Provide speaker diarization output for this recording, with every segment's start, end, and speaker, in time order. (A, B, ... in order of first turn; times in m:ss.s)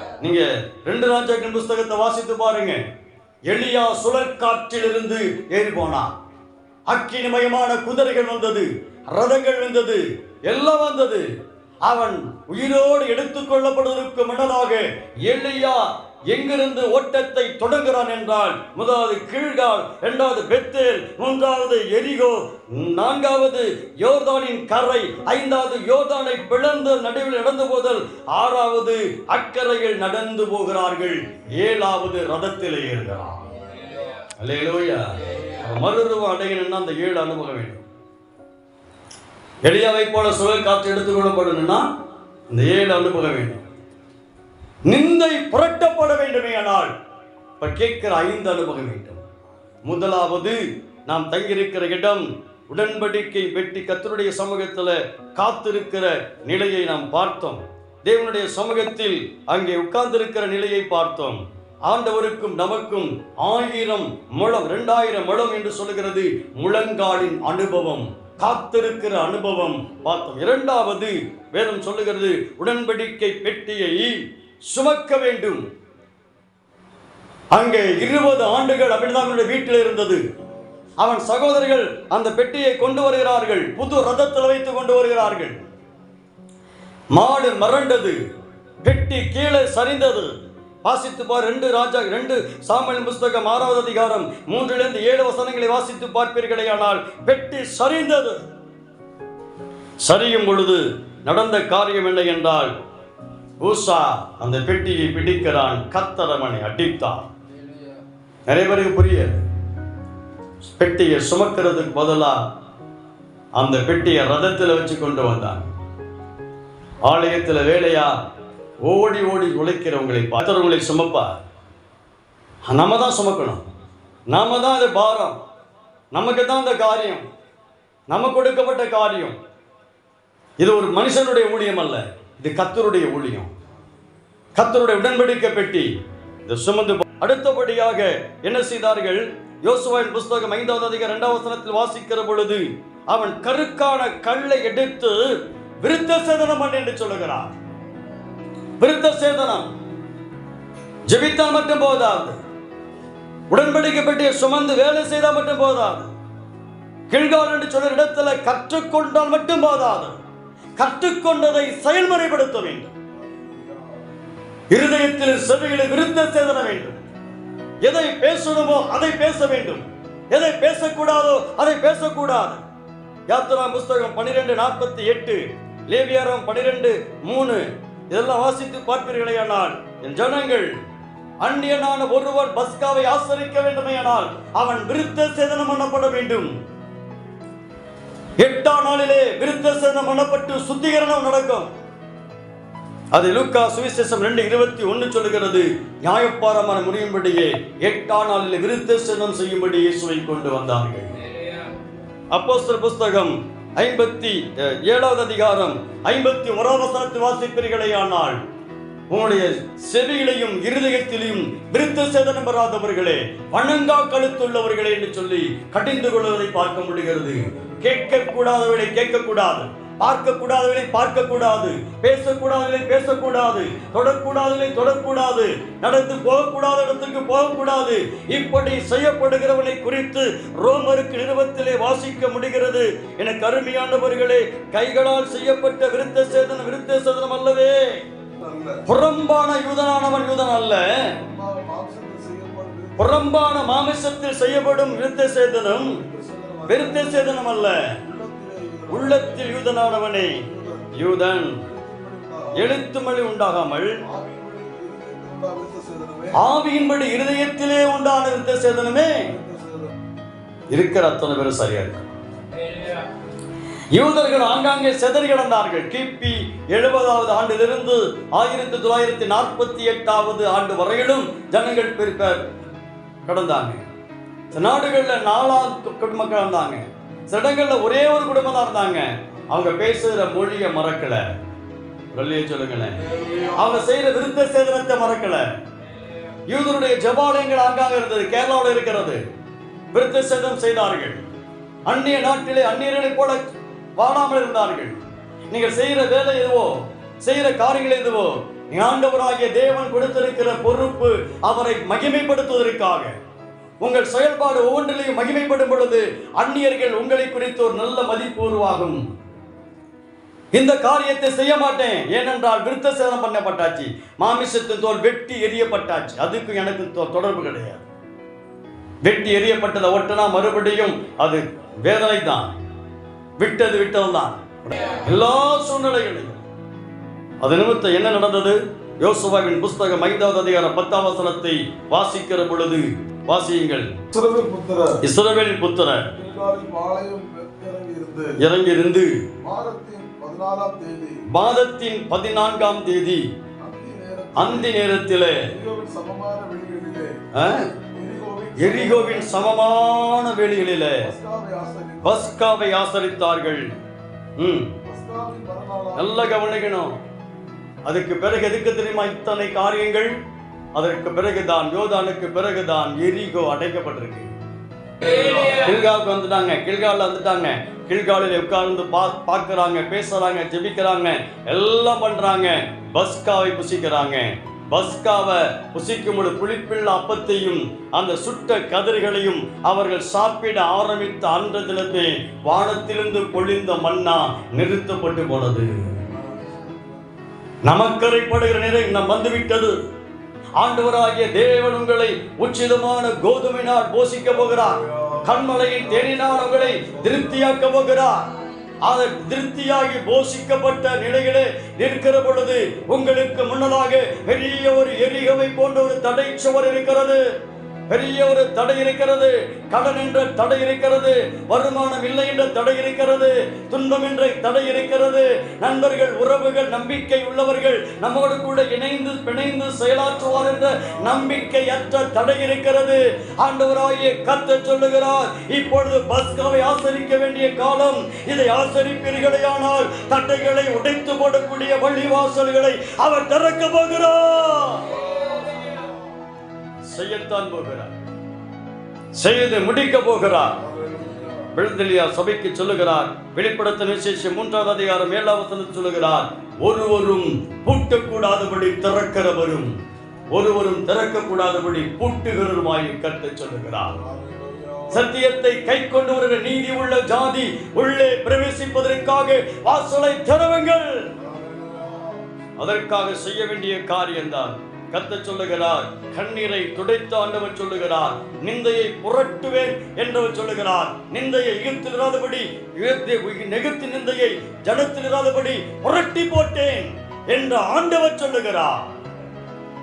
0:00.2-0:02.8 A
0:03.5-0:06.1 A
0:06.9-0:11.3 A
0:11.9-0:33.5 A
0:34.4-0:37.8 A
0:39.6-0:41.8 A
0:42.5-0:43.6 A
0:44.9-0:46.9 A
0:47.6-0:49.2 A
0:49.8-1:15.6 A
1:17.5-1:20.2 A
1:21.0-1:25.6 A
1:27.1-1:28.2 A
1:28.8-1:30.3 A
1:30.8-1:38.4 A
1:40.0-1:42.7 A
1:43.6-1:47.3 A
1:48.5-1:49.4 A
1:50.7-1:52.4 A
1:53.6-1:55.7 A
1:57.1-1:58.2 A
1:58.8-2:01.4 A
2:02.7-2:03.6 A
2:04.3-2:05.4 A
2:06.1-2:07.2 A
2:08.1-2:09.4 A
2:10.6-2:13.5 A
2:14.6-2:15.9 A
2:16.5-2:27.5 A
2:28.8-2:29.7 A
2:31.1-2:32.4 A
2:33.5-2:36.1 A
2:37.1-2:40.2 A
2:40.8-2:42.9 A
2:43.2-2:44.0 B
2:44.7-2:47.0 A
2:47.8-2:52.6 A
2:53.3-3:00.7 A
3:01.4-3:06.5 A
3:08.4-3:11.7 A
3:13.1-3:21.2 A
3:22.3-3:28.4 A
3:29.1-3:58.0 A
3:58.4-3:58.8 B
3:58.9-4:01.2 A
4:01.2-4:03.3 B
4:03.0-4:06.0 A
4:05.9-4:09.6 B
4:06.7-4:08.0 A
4:08.9-4:10.4 A
4:10.4-4:10.9 B
4:11.0-4:11.6 A
4:11.6-4:12.7 B
4:12.6-4:14.0 A
4:14.0-4:16.4 B
4:16.4-4:19.3 A
4:19.2-4:20.0 B
4:20.7-4:22.1 A
4:23.9-4:32.5 A
4:33.2-4:33.8 A
4:34.5-4:41.2 A
4:42.1-4:43.0 A
4:43.1-4:43.6 B
4:43.5-4:45.4 A
4:46.5-4:49.2 A
4:49.9-4:51.2 A
4:51.9-4:55.0 A
4:55.5-5:03.1 A
5:03.8-5:09.0 A
5:10.6-5:17.9 A
5:19.0-5:22.5 A
5:23.4-5:26.5 A
5:27.4-5:33.9 A
5:34.1-5:35.0 B
5:35.0-5:36.1 A
5:36.2-5:38.4 B
5:38.4-5:39.2 A
5:39.4-5:41.2 B
5:41.3-5:43.3 A
5:43.6-5:44.8 B
5:44.4-5:45.5 A
5:45.5-5:47.2 B
5:47.3-5:47.7 A
5:47.8-5:49.5 B
5:48.6-5:51.1 A
5:51.0-5:52.4 B
5:52.0-5:53.7 A
5:54.4-5:54.8 A
5:54.8-5:56.4 B
5:56.0-5:57.0 A
5:57.9-6:00.1 A
6:00.8-6:04.3 A
6:05.1-6:26.0 A
6:26.0-6:26.9 B
6:27.6-6:29.7 A
6:30.6-6:38.3 A
6:34.6-6:37.4 B
6:38.8-6:47.2 A
6:47.9-7:15.0 A
7:00.4-7:01.2 B
7:16.9-7:17.9 A
7:19.2-7:20.6 A
7:20.6-7:21.5 B
7:21.5-7:29.7 A
7:30.3-7:34.0 A
7:34.0-7:35.1 B
7:34.9-7:41.1 A
7:41.2-7:42.2 B
7:42.6-7:58.8 A